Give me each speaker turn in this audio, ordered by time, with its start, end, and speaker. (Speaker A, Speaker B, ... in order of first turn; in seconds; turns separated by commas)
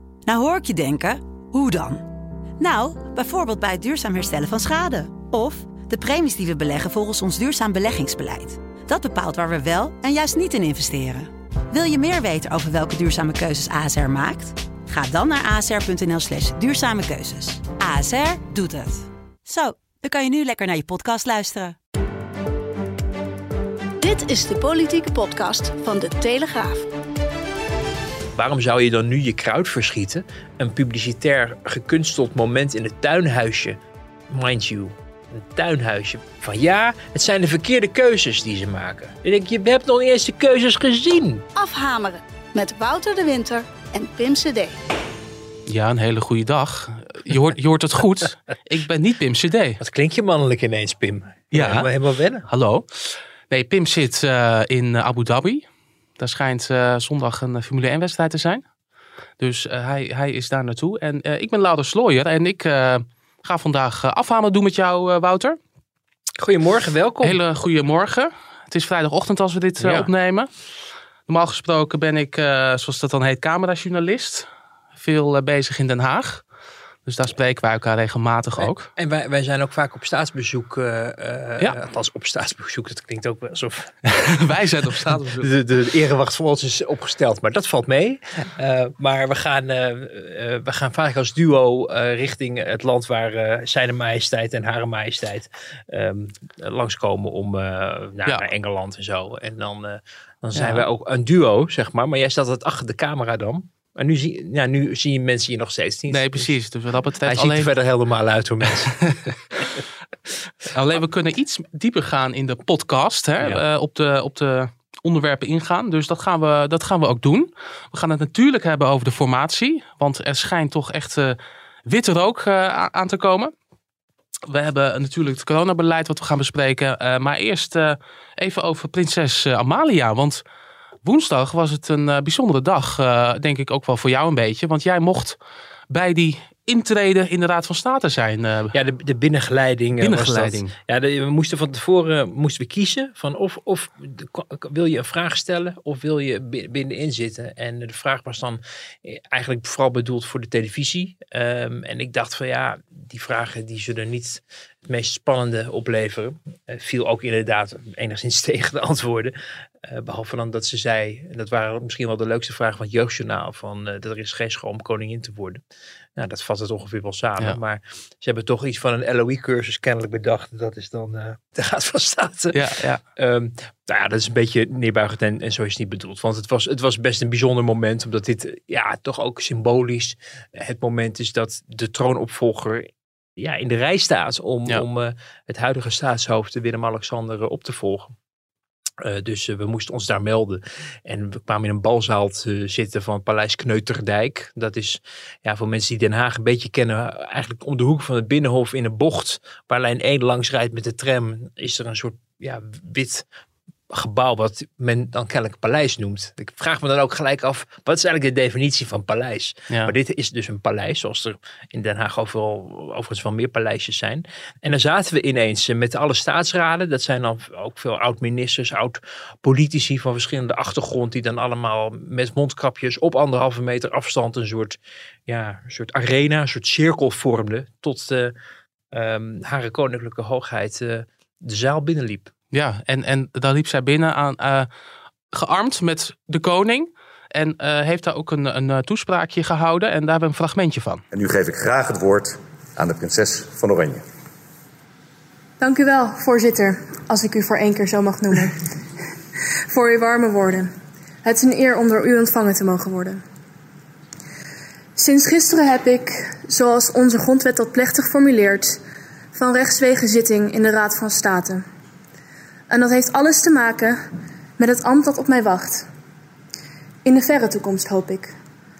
Speaker A: 0.2-2.0, Speaker A: 2.6-21.8, Speaker B: 24.0-26.9, Speaker C: 28.3-33.8, Speaker C: 34.3-41.5, Speaker B: 41.5-44.8, Speaker D: 45.6-49.8, Speaker C: 49.8-52.5, Speaker D: 51.5-51.9, Speaker D: 52.5-52.9, Speaker D: 53.5-55.7, Speaker D: 56.2-58.6, Speaker D: 59.4-65.6, Speaker C: 66.4-67.4, Speaker D: 67.2-70.5, Speaker C: 69.8-70.1, Speaker D: 71.2-76.4, Speaker D: 77.0-78.9, Speaker C: 78.6-84.0, Speaker D: 84.0-85.5, Speaker C: 85.4-106.5, Speaker D: 100.5-100.8, Speaker D: 106.1-107.7, Speaker C: 107.2-109.4, Speaker D: 110.7-123.5, Speaker D: 124.5-130.4, Speaker D: 131.0-135.4, Speaker D: 135.9-138.7, Speaker C: 138.7-165.6, Speaker D: 140.0-140.7, Speaker C: 166.2-188.1, Speaker D: 172.5-173.0, Speaker C: 189.0-203.2, Speaker C: 203.9-228.3, Speaker C: 228.9-232.3, Speaker D: 232.5-234.7, Speaker D: 235.3-241.0, Speaker E: 241.1-244.0, Speaker F: 245.6-248.6, Speaker F: 249.7-250.7, Speaker F: 251.2-253.2, Speaker F: 255.0-258.8, Speaker F: 259.3-261.6, Speaker F: 262.7-264.0, Speaker F: 264.6-265.9, Speaker F: 267.0-268.3